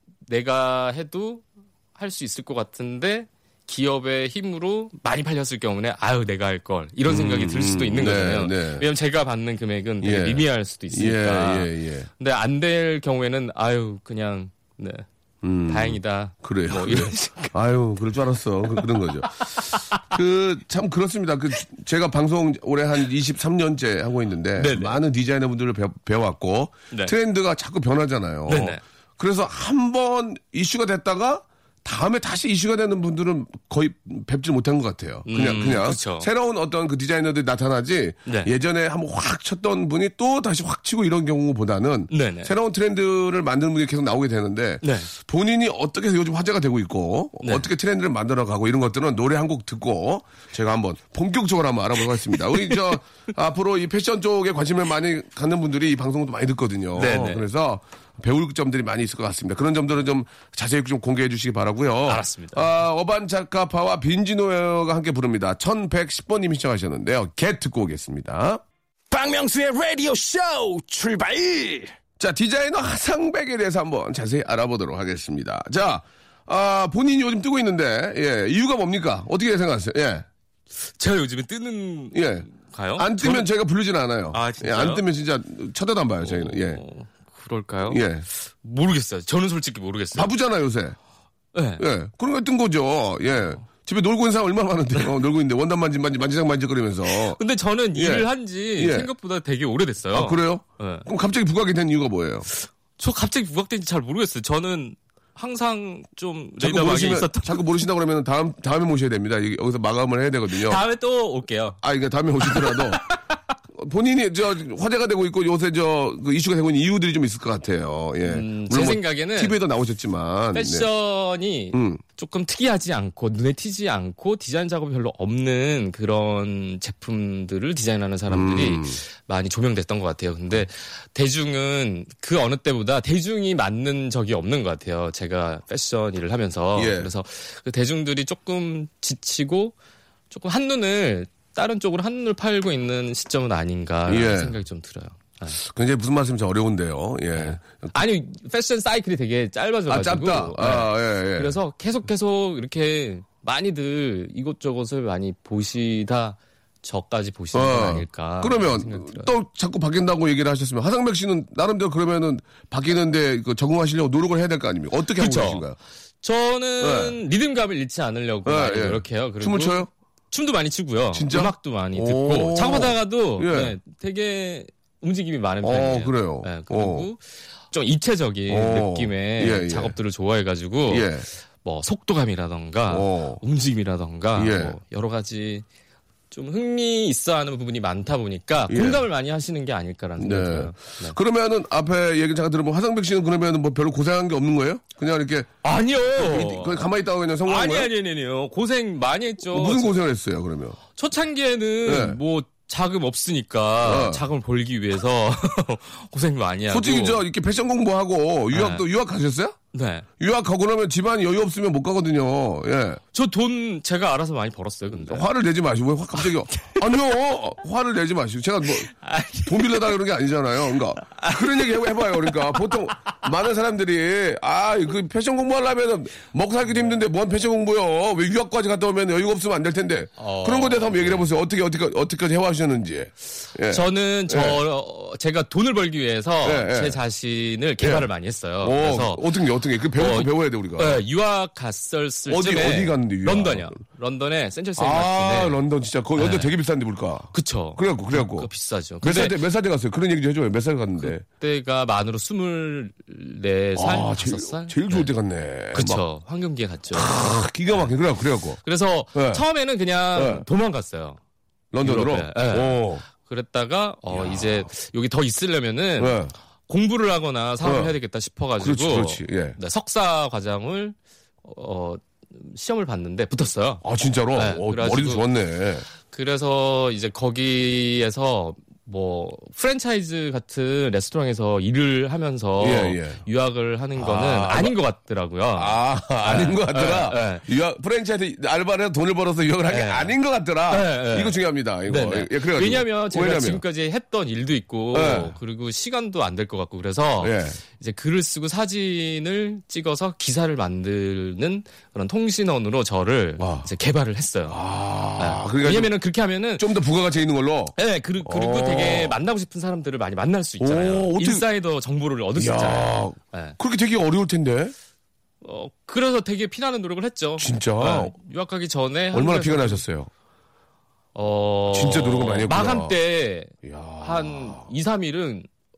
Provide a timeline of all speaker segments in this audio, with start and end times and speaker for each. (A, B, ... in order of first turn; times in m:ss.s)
0:00.3-0:15.1 A
0:07.1-0:08.9 B
0:10.0-0:12.1 B
0:15.4-1:08.6 B
0:15.7-0:17.6 A
0:18.7-0:20.1 A
0:24.6-0:25.0 A
0:28.5-0:28.8 A
0:35.3-0:36.3 A
0:38.3-0:38.5 A
0:42.1-0:42.6 A
0:44.8-0:45.1 A
0:47.4-0:47.7 A
0:52.5-0:52.8 A
0:57.0-0:57.5 A
1:02.1-1:02.7 A
1:09.1-1:11.9 C
1:12.2-1:20.3 B
1:20.8-1:23.5 A
1:22.1-1:26.8 B
1:24.3-1:25.0 A
1:26.2-1:30.3 A
1:27.9-1:28.3 B
1:30.2-1:31.0 B
1:31.5-1:31.8 A
1:31.8-1:37.4 B
1:37.1-1:41.1 A
1:38.0-1:39.1 B
1:40.1-1:42.5 B
1:42.5-1:47.7 A
1:46.6-1:50.8 B
1:50.5-1:51.8 A
1:51.8-1:53.1 B
1:52.4-1:53.2 A
1:53.7-2:00.9 B
1:58.2-1:59.6 A
2:00.5-2:19.8 A
2:01.7-2:02.0 B
2:08.3-2:09.0 B
2:16.8-2:17.1 B
2:20.3-2:25.6 A
2:24.1-2:24.6 B
2:25.6-2:27.9 B
2:27.3-2:39.3 A
2:29.9-2:31.6 B
2:37.5-2:45.8 B
2:45.2-2:45.7 A
2:46.2-3:01.1 A
2:46.8-2:47.2 B
2:48.4-2:49.9 B
2:51.1-2:53.8 B
2:55.6-2:57.1 B
2:58.5-3:00.0 B
3:00.9-3:01.2 B
3:01.6-3:05.6 A
3:02.9-3:03.4 B
3:04.4-3:04.8 B
3:06.3-3:11.2 A
3:08.7-3:09.0 B
3:10.2-3:15.5 B
3:15.6-3:16.8 A
3:16.2-3:17.9 B
3:17.5-3:20.0 A
3:19.5-3:20.8 B
3:20.9-3:27.2 A
3:21.8-3:22.2 B
3:23.8-3:24.3 B
3:26.7-3:29.6 B
3:28.5-3:28.8 A
3:29.7-3:30.1 A
3:30.2-3:33.0 B
3:33.1-3:35.3 A
3:35.0-3:38.9 B
3:36.1-3:37.0 A
3:38.7-3:39.9 A
3:39.4-3:54.6 B
3:41.0-3:43.1 A
3:50.2-3:51.3 A
3:53.7-3:59.3 A
3:56.4-3:57.0 B
3:57.8-3:58.1 B
3:58.6-4:01.0 B
4:00.0-4:05.6 A
4:02.3-4:03.8 B
4:04.8-4:08.5 B
4:06.2-4:06.5 A
4:07.3-4:09.4 A
4:09.0-4:11.2 B
4:11.0-4:15.1 A
4:13.8-4:16.0 B
4:15.7-4:18.0 A
4:16.9-4:18.6 B
4:18.6-4:21.2 A
4:19.1-4:19.4 B
4:20.2-4:20.4 B
4:21.7-4:23.0 B
4:21.8-4:35.2 A
4:24.1-4:24.7 B
4:26.0-4:26.3 B
4:27.6-4:27.9 B
4:28.6-4:29.6 B
4:33.8-4:35.9 B
4:36.1-4:47.5 A
4:42.6-4:43.2 B
4:44.0-4:44.8 B
4:45.6-4:53.6 B
4:49.7-4:50.2 A
4:50.7-5:04.6 A
4:54.9-4:55.4 B
4:57.2-4:57.6 B
5:03.4-5:03.7 B
5:04.5-5:05.9 B
5:05.2-5:06.7 A
5:06.6-5:09.2 B
5:07.8-5:13.6 A
5:10.6-5:11.4 B
5:12.4-5:14.7 B
5:15.4-5:19.8 A
5:17.4-5:18.2 B
5:19.1-5:20.1 B
5:21.2-5:25.5 A
5:21.7-5:23.0 B
5:23.6-5:24.7 B